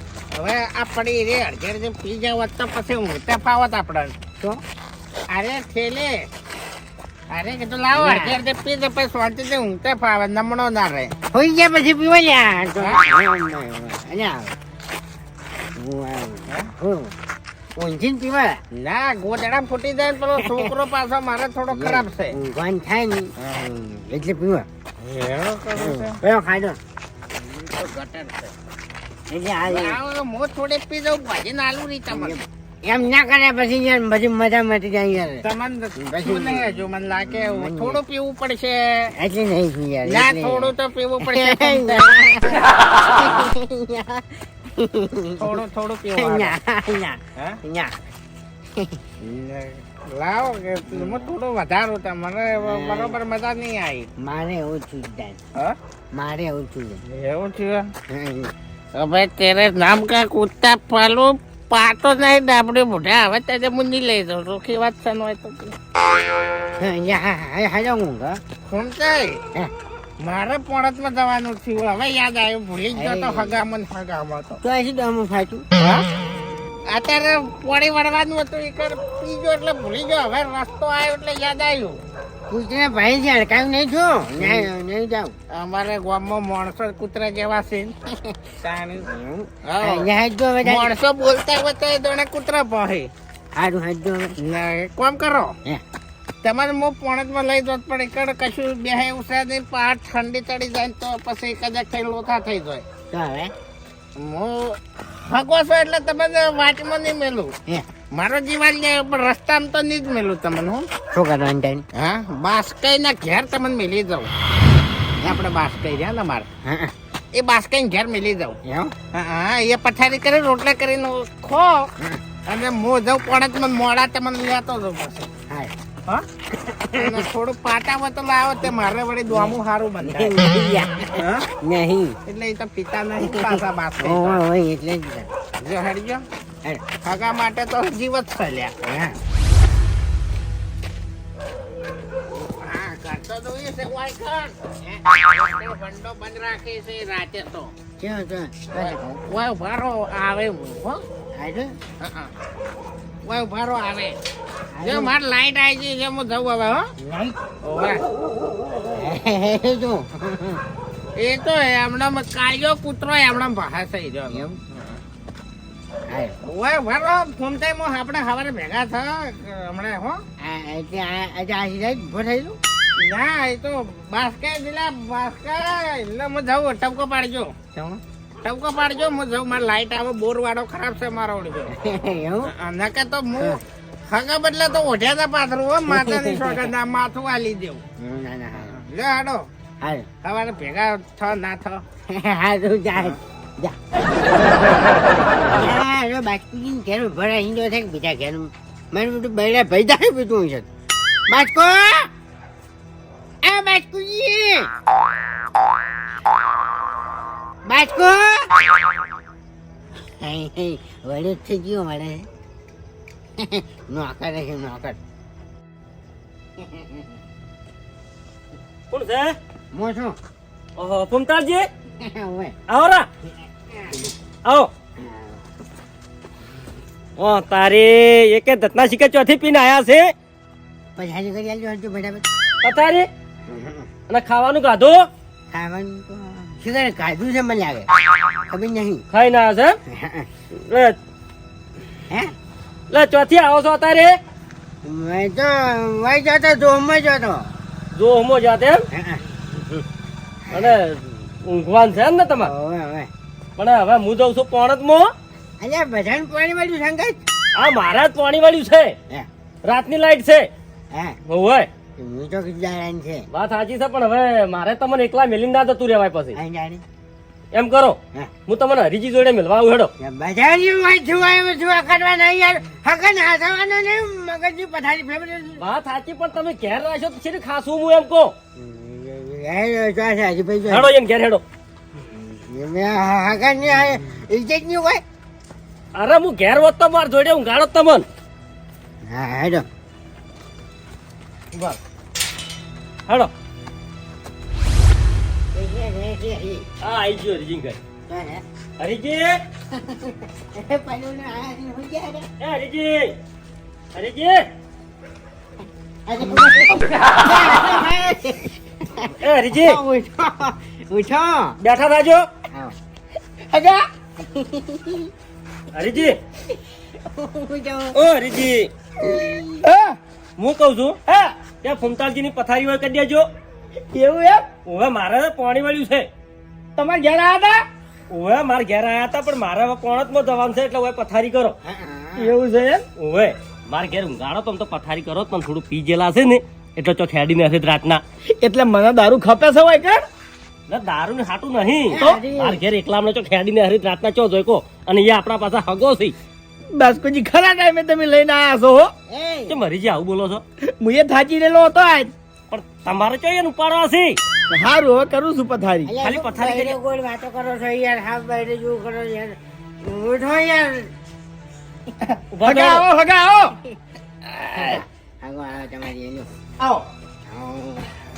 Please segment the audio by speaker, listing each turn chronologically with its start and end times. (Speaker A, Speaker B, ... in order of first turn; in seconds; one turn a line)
Speaker A: 0.3-4.2
Speaker A: 5.3-6.3
Speaker A: 7.3-11.1
Speaker B: 7.9-8.4
Speaker B: 11.3-14.6
Speaker B: 15.8-17.1
Speaker B: 17.8-18.6
Speaker A: 18.7-22.4
Speaker B: 20.4-20.7
Speaker B: 21.7-24.7
Speaker A: 25.0-26.2
Speaker B: 25.7-26.8
Speaker A: 27.3-28.5
Speaker B: 29.3-30.0
Speaker A: 29.6-32.4
Speaker B: 32.1-35.4
Speaker A: 35.4-39.1
Speaker B: 36.0-38.0
Speaker B: 39.2-45.6
Speaker A: 40.0-42.1
Speaker A: 45.4-46.5
Speaker B: 46.2-48.0
Speaker B: 48.8-49.6
Speaker A: 49.2-54.1
Speaker B: 50.9-51.2
Speaker B: 52.5-53.1
Speaker B: 54.2-55.4
Speaker B: 56.1-57.0
Speaker A: 57.0-57.9
Speaker B: 58.1-58.5
Speaker A: 58.9-65.8
Speaker B: 66.8-68.4
Speaker A: 68.7-69.4
Speaker A: 70.2-74.6
Speaker B: 72.9-73.5
Speaker B: 74.6-75.7
Speaker A: 75.8-76.1
Speaker A: 76.9-82.0
Speaker B: 82.5-85.3
Speaker A: 84.4-84.7
Speaker A: 85.5-88.0
Speaker A: 88.6-89.1
Speaker B: 89.0-90.9
Speaker A: 89.6-90.1
Speaker A: 90.6-93.1
Speaker B: 93.5-94.3
Speaker A: 94.4-95.5
Speaker A: 96.4-102.8
Speaker B: 103.1-103.5
Speaker A: 104.2-107.5
Speaker A: 108.1-110.8
Speaker B: 111.1-111.8
Speaker A: 111.9-114.3
Speaker A: 115.2-116.5
Speaker B: 116.6-116.9
Speaker A: 117.3-118.6
Speaker B: 118.6-118.9
Speaker A: 119.1-121.9
Speaker A: 122.5-125.3
Speaker B: 125.5-125.7
Speaker B: 126.5-127.2
Speaker A: 126.9-130.3
Speaker B: 129.3-132.2
Speaker A: 131.1-131.4
Speaker A: 132.2-134.4
Speaker B: 133.2-135.3
Speaker A: 135.6-136.2
Speaker A: 137.0-138.7
Speaker B: 138.8-139.2
Speaker A: 142.3-144.6
Speaker A: 145.1-147.7
Speaker B: 148.0-149.0
Speaker A: 148.7-151.0
Speaker B: 151.4-151.7
Speaker A: 152.0-152.3
Speaker A: 153.2-154.2
Speaker B: 154.7-155.1
Speaker A: 154.8-156.9
Speaker B: 157.0-157.4
Speaker A: 157.6-158.0
Speaker B: 158.9-160.6
Speaker A: 161.2-165.0
Speaker B: 164.3-164.6
Speaker B: 166.1-166.4
Speaker A: 166.4-170.2
Speaker B: 170.4-172.6
Speaker A: 173.0-177.6
Speaker B: 177.7-178.0
Speaker A: 178.4-181.7
Speaker B: 181.7-182.5
Speaker A: 182.4-187.8
Speaker B: 185.9-186.6
Speaker B: 188.0-188.8
Speaker A: 188.7-189.5
Speaker B: 189.8-190.1
Speaker A: 190.2-191.8
Speaker B: 192.1-193.8
Speaker B: 195.4-200.7
Speaker B: 201.3-202.1
Speaker B: 203.4-204.7
Speaker B: 207.7-208.5
Speaker B: 210.2-212.3
Speaker B: 213.4-215.0
Speaker C: 218.9-219.4
Speaker B: 219.7-220.2
Speaker C: 220.8-221.7
Speaker B: 222.0-222.6
Speaker C: 222.7-223.1
Speaker C: 224.4-224.7
Speaker B: 225.0-225.4
Speaker C: 227.2-230.1
Speaker B: 230.9-232.2
Speaker C: 232.6-233.1
Speaker B: 233.5-233.9
Speaker C: 234.1-235.1
Speaker B: 235.5-237.9
Speaker B: 238.5-239.0
Speaker C: 239.1-239.8
Speaker B: 239.9-240.3
Speaker C: 240.5-241.0
Speaker C: 242.9-244.2
Speaker B: 244.8-247.5
Speaker C: 247.9-248.8
Speaker B: 248.9-249.8
Speaker C: 250.5-252.5
Speaker B: 252.4-253.1
Speaker C: 253.6-255.1
Speaker B: 255.6-257.2
Speaker C: 257.5-258.9
Speaker C: 259.6-260.5
Speaker B: 260.9-261.2
Speaker C: 261.3-261.7
Speaker B: 262.0-263.3
Speaker C: 263.3-266.4
Speaker B: 266.3-266.8
Speaker C: 267.5-269.9
Speaker B: 270.0-275.6
Speaker C: 275.6-278.3
Speaker B: 278.6-280.9
Speaker C: 280.7-281.4
Speaker B: 282.1-285.0
Speaker C: 285.9-288.0
Speaker B: 289.0-289.6
Speaker B: 295.5-296.6
Speaker C: 296.8-297.8
Speaker B: 298.1-298.4
Speaker C: 298.8-299.4
Speaker B: 299.7-302.3
Speaker C: 302.4-303.1
Speaker C: 303.9-304.5
Speaker B: 306.1-311.6
Speaker C: 309.2-309.8
Speaker C: 311.6-312.3
Speaker D: 313.5-313.8
Speaker B: 314.2-315.1
Speaker C: 315.7-316.2
Speaker B: 317.0-318.0
Speaker C: 317.9-318.7
Speaker B: 319.0-319.6
Speaker D: 319.6-320.0
Speaker C: 320.4-321.0
Speaker D: 321.1-321.3
Speaker C: 321.6-323.3
Speaker D: 323.9-324.5
Speaker C: 324.6-326.1
Speaker D: 326.8-327.6
Speaker C: 328.1-331.5
Speaker B: 331.6-332.3
Speaker D: 332.2-332.8
Speaker C: 333.0-338.0
Speaker D: 338.4-340.0
Speaker C: 340.7-346.1
Speaker B: 341.9-342.6
Speaker D: 346.7-348.9
Speaker B: 349.1-349.6
Speaker C: 349.5-350.4
Speaker D: 350.8-352.1
Speaker C: 352.5-354.2
Speaker D: 354.5-355.9
Speaker B: 355.9-360.9
Speaker C: 356.0-356.8
Speaker D: 362.0-363.6
Speaker C: 362.3-362.8
Speaker B: 364.5-366.3
Speaker D: 366.6-366.9
Speaker B: 367.2-367.9